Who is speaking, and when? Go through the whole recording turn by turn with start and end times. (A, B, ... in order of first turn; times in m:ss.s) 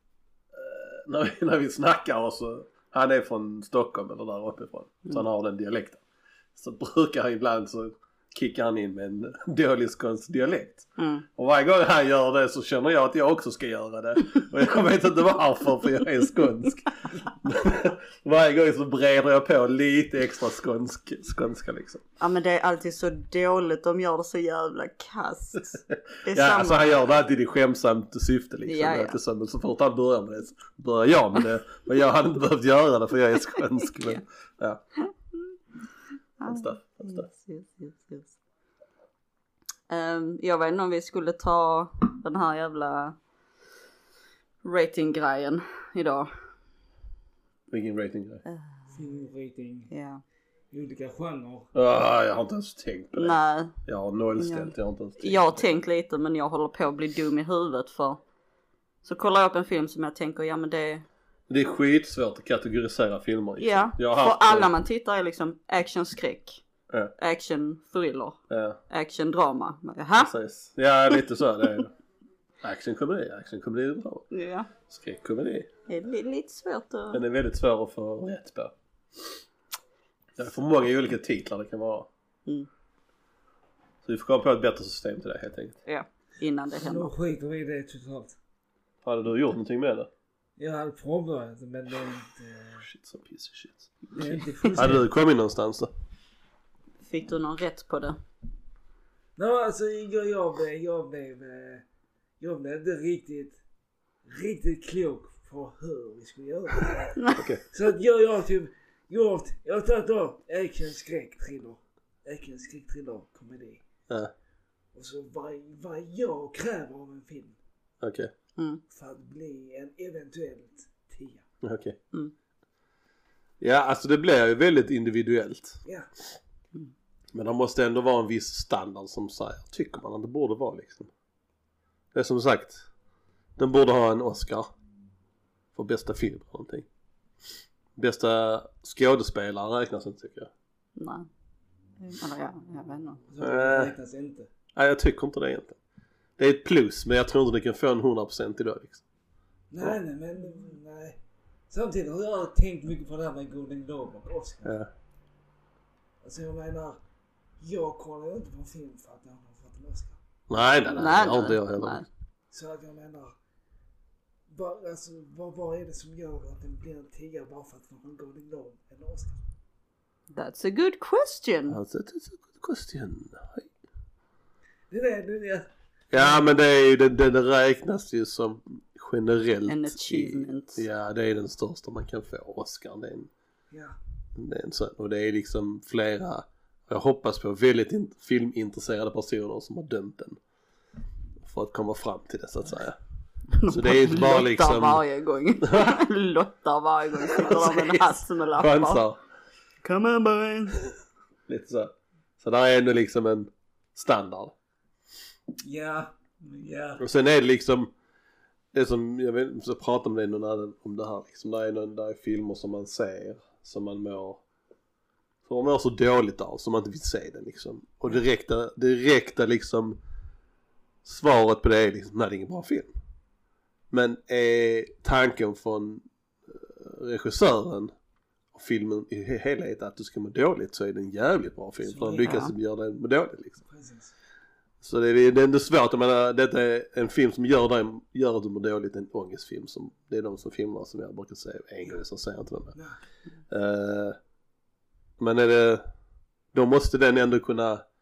0:00.5-0:06.0 A
0:06.5-0:22.0 A
0:11.0-0:11.2 B
0:22.2-0:26.8 B
0:25.9-0:34.8 A
0:28.6-0:29.2 B
0:36.4-0:38.4 B
0:36.4-0:37.3 A
0:39.9-0:43.2 B
0:44.6-0:46.3 B
0:47.7-0:48.4 A
0:48.9-0:49.9 C
0:49.9-0:50.2 B
0:50.7-0:51.7 C
0:51.7-0:55.6 A
0:53.1-0:53.8 B
0:54.4-0:58.2 B
0:59.0-1:01.0 B
1:01.5-1:04.7 A
1:03.6-1:06.6 B
1:07.2-1:10.3 B
1:08.5-1:08.8 A
1:10.2-1:11.9 A
1:12.6-1:14.2 A
1:14.3-1:14.7 B
1:14.9-1:15.7 A
1:15.9-1:17.2 B
1:17.1-1:19.4 A
1:20.4-1:22.1 A
1:24.0-1:25.8 A
1:25.8-1:27.1 B
1:26.7-1:28.4 C
1:29.0-1:30.1 A
1:30.6-1:32.8 C
1:32.8-1:33.9 A
1:34.1-1:35.0 C
1:34.7-1:35.9 A
1:37.0-1:38.2 B
1:39.4-1:41.8 C
1:42.4-1:43.6 C
1:44.2-1:53.8 C
1:47.2-1:47.4 B
1:47.4-1:47.6 A
1:54.9-1:57.6 C
1:58.0-1:58.3 A
1:58.9-2:01.4 C
2:01.6-2:02.0 A
2:03.6-2:05.8 A
2:07.3-2:11.1 A
2:12.1-2:12.8 A
2:13.6-2:14.7 A
2:15.7-2:16.8 A
2:18.0-2:20.5 A
2:21.0-2:21.3 B
2:22.0-2:23.2 B
2:23.3-2:24.5 C
2:23.4-2:23.9 A
2:24.7-2:25.8 A
2:26.4-2:29.0 A
2:29.7-2:31.2 C
2:31.7-2:34.7 C
2:34.6-2:34.9 A
2:36.2-2:37.0 C
2:37.6-2:40.2 C
2:40.5-2:42.0 A
2:40.9-2:42.0 B
2:41.1-2:41.4 C
2:42.5-2:43.3 C
2:44.5-2:49.4 C
2:50.3-2:51.8 B
2:51.7-2:53.7 A
2:54.9-2:56.5 C
2:56.1-3:03.3 A
2:59.7-3:00.8 B
3:03.7-3:04.0 C
3:04.3-3:10.4 A
3:11.4-3:13.0 A
3:13.6-3:19.0 B
3:13.6-3:15.0 A
3:15.6-3:16.0 A
3:17.3-3:19.2 A
3:19.8-3:20.8 B
3:21.5-3:24.5 A
3:25.6-3:27.0 C
3:27.0-3:27.9 A
3:28.7-3:34.4 A
3:35.4-3:40.0 A
3:41.0-3:42.9 A
3:43.9-3:47.9 A
3:48.5-3:53.6 A
3:51.8-3:52.4 C
3:52.2-3:52.5 B
3:53.7-3:54.1 C
3:54.8-4:02.8 A
4:03.5-4:04.2 A
4:05.2-4:05.8 A
4:06.5-4:07.8 A